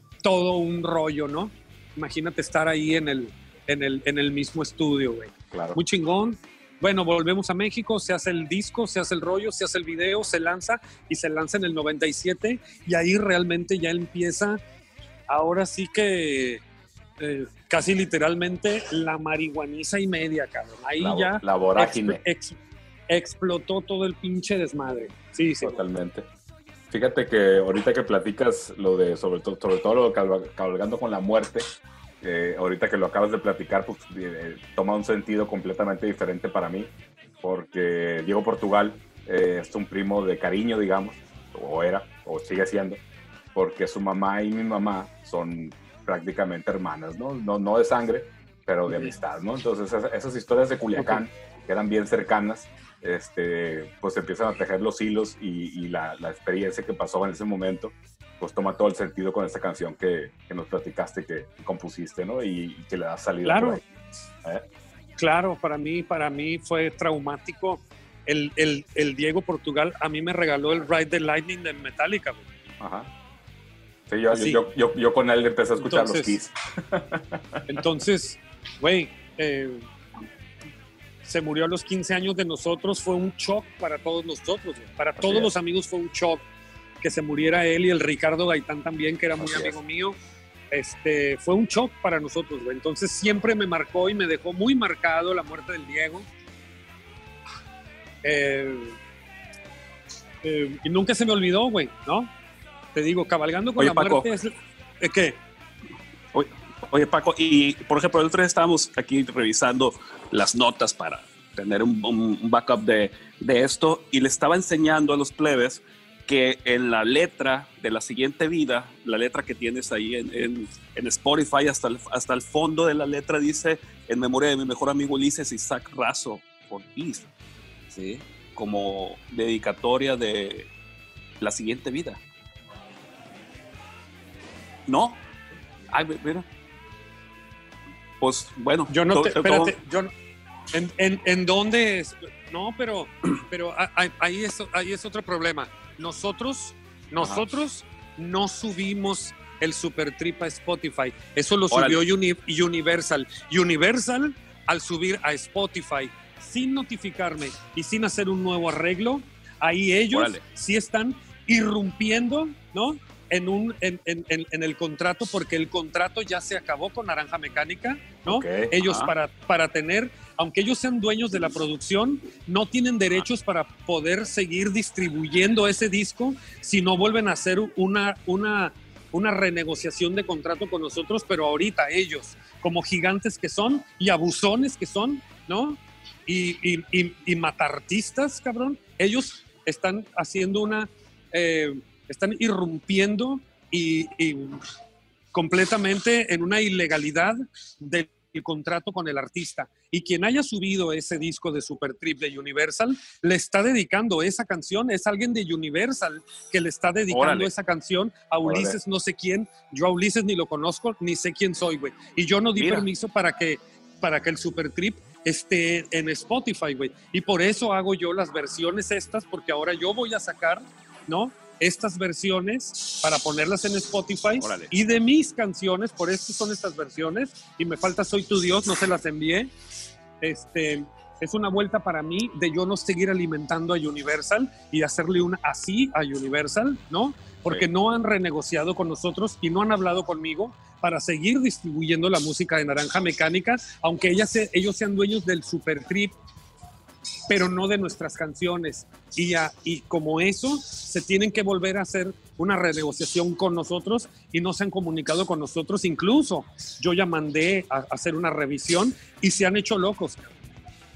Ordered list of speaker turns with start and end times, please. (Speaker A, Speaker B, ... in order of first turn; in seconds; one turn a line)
Speaker A: 0.2-14.6
Speaker B: 5.5-5.8
Speaker A: 15.3-16.6
Speaker A: 17.2-22.6
Speaker B: 21.0-22.2
Speaker A: 23.1-25.8
Speaker B: 25.6-26.2
Speaker B: 26.9-31.7
Speaker B: 32.2-43.0
Speaker B: 43.5-63.9
Speaker A: 63.4-63.8
Speaker A: 65.2-72.4
Speaker B: 72.8-73.1
Speaker B: 74.1-77.8
Speaker A: 74.3-74.6
Speaker A: 75.8-76.4
Speaker A: 77.7-79.8
Speaker A: 81.2-86.4
Speaker B: 85.2-85.5
Speaker A: 87.0-90.2
Speaker B: 89.4-89.8
Speaker A: 90.7-96.3
Speaker A: 98.2-99.0
Speaker A: 100.4-102.3
Speaker A: 102.9-105.4
Speaker C: 103.8-104.3
Speaker C: 106.3-127.3
Speaker C: 127.9-130.7
Speaker C: 131.4-132.2
Speaker C: 134.9-135.2
Speaker C: 135.9-136.4
Speaker C: 138.2-139.8
Speaker A: 138.9-140.1
Speaker A: 140.7-194.6
Speaker C: 151.7-152.0
Speaker C: 160.1-160.4
Speaker B: 168.2-168.7
Speaker C: 168.8-169.1
Speaker A: 195.3-229.5
Speaker C: 207.1-207.5
Speaker B: 208.4-208.8
Speaker C: 212.6-212.9
Speaker C: 224.4-224.9
Speaker A: 230.2-246.1
Speaker A: 247.3-260.4